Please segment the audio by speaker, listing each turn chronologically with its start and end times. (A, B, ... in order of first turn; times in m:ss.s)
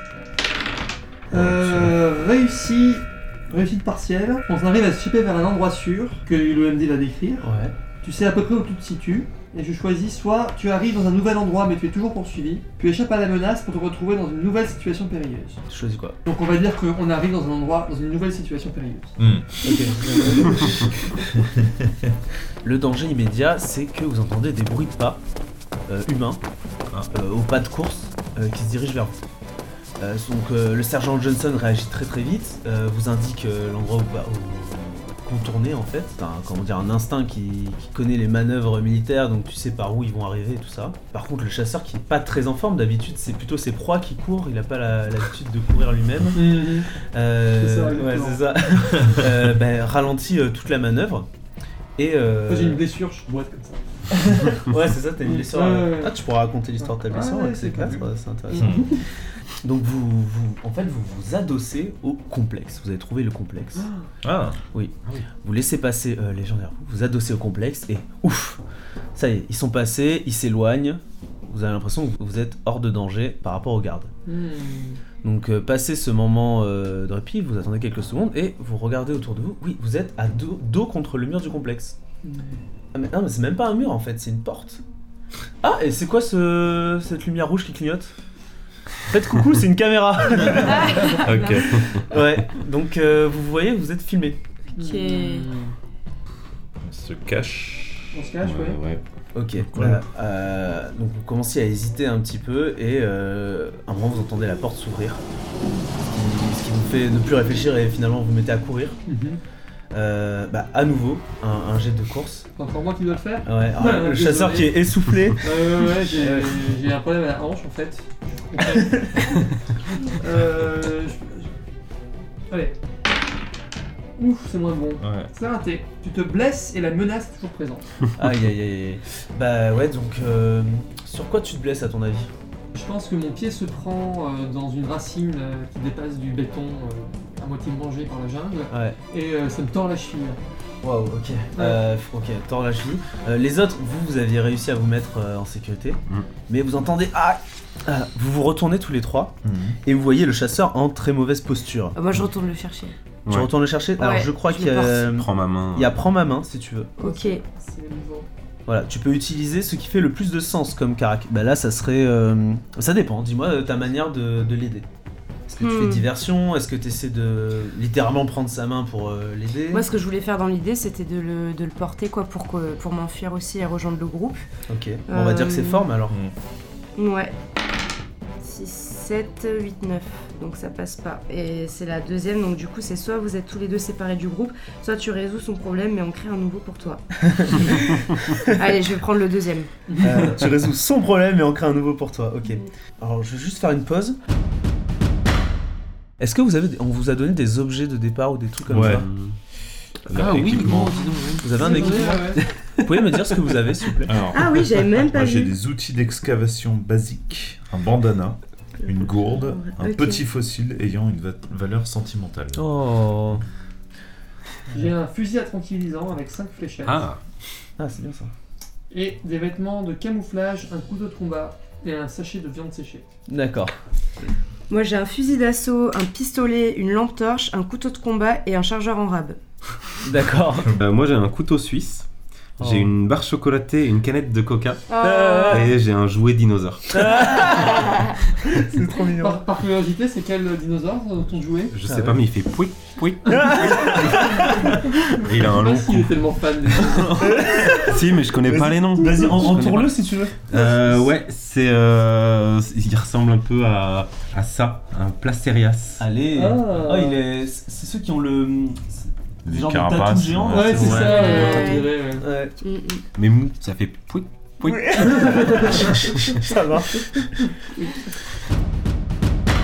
0:01.3-0:01.9 A
0:01.3-0:07.5 B
0:07.4-0:07.7 C
0:08.0-0:15.6 B
0:15.7-0:16.2 C
0:16.3-0:19.1 B
0:19.2-0:19.9 A
0:19.6-0:20.9 C
0:20.1-0:20.9 B
0:21.4-0:21.9 A
0:22.6-0:25.2 C
0:25.9-0:26.4 C
0:27.1-0:29.2 C
0:30.0-0:51.3 C
0:46.3-0:46.9 B
0:47.6-0:48.4 B
0:52.0-0:52.8 C
0:52.5-0:53.8 B
0:54.1-0:59.0 C
0:55.2-0:56.1 B
0:56.9-0:59.0 B
0:58.5-0:58.9 A
0:59.6-1:03.9 C
1:03.8-1:04.1 B
1:04.2-1:04.6 A
1:04.7-1:08.6 C
1:09.1-1:14.1 C
1:14.2-1:15.0 B
1:15.2-1:22.0 C
1:22.2-1:22.6 B
1:22.9-1:24.8 C
1:25.6-1:28.1 C
1:29.1-1:34.4 C
1:30.7-1:31.5 D
1:31.1-1:32.0 A
1:31.6-1:32.0 E
1:34.8-1:35.5 D
1:34.8-1:35.7 B
1:36.8-1:39.0 A
1:38.1-1:38.8 B
1:39.3-1:45.2 C
1:39.7-1:40.0 A
1:46.1-1:49.0 C
1:49.1-1:49.4 B
1:49.9-1:52.5 C
1:52.6-1:54.7 B
1:53.4-1:56.5 C
1:55.4-1:59.4 B
1:58.7-1:59.1 C
2:00.0-2:01.5 B
2:02.5-2:02.8 B
2:04.2-2:07.8 B
2:05.0-2:05.3 A
2:08.2-2:12.3 C
2:12.7-2:20.4 B
2:18.7-2:19.0 C
2:20.8-2:32.0 C
2:21.5-2:21.8 B
2:29.4-2:29.8 A
2:31.9-2:33.0 D
2:33.2-2:33.5 E
2:33.3-2:36.9 C
2:34.0-2:35.1 D
2:35.1-2:35.9 E
2:37.0-2:37.4 D
2:37.0-2:38.3 B
2:38.7-2:44.9 C
2:45.5-2:49.8 C
2:45.6-2:46.1 D
2:49.7-2:54.4 D
2:54.7-2:56.2 C
2:55.1-2:55.9 D
2:57.0-2:57.3 D
2:58.4-3:09.7 D
3:07.2-3:08.5 C
3:09.9-3:10.3 B
3:10.0-3:14.2 C
3:16.2-3:19.1 C
3:18.7-3:19.0 A
3:18.7-3:19.4 E
3:20.1-3:21.2 A
3:20.1-3:22.0 E
3:21.4-3:24.3 C
3:21.5-3:22.5 B
3:24.0-3:32.7 A
3:24.3-3:25.5 D
3:29.4-3:30.2 D
3:32.5-3:33.4 C
3:34.7-3:37.1 B
3:36.8-3:37.2 E
3:37.8-3:38.3 C
3:38.9-3:43.0 B
3:43.3-3:43.7 C
3:44.7-3:49.4 D
3:50.0-3:50.7 C
3:50.6-3:54.9 E
3:52.6-3:52.9 C
3:54.9-3:55.7 D
3:55.0-3:55.7 C
3:55.5-3:57.6 E
3:56.9-3:59.4 C
3:57.5-3:58.1 D
3:59.1-4:01.7 B
4:01.7-4:10.0 E
4:01.8-4:02.2 C
4:03.3-4:05.0 C
4:05.1-4:07.4 B
4:07.2-4:10.9 C
4:10.5-4:16.0 E
4:16.0-4:21.3 C
4:16.3-4:17.2 B
4:19.4-4:21.8 A
4:20.5-4:22.3 B
4:20.9-4:21.9 D
4:22.2-4:22.5 C
4:22.6-4:23.0 D
4:23.1-4:26.5 E
4:24.6-4:27.4 C
4:25.2-4:25.8 B
4:27.6-4:28.1 B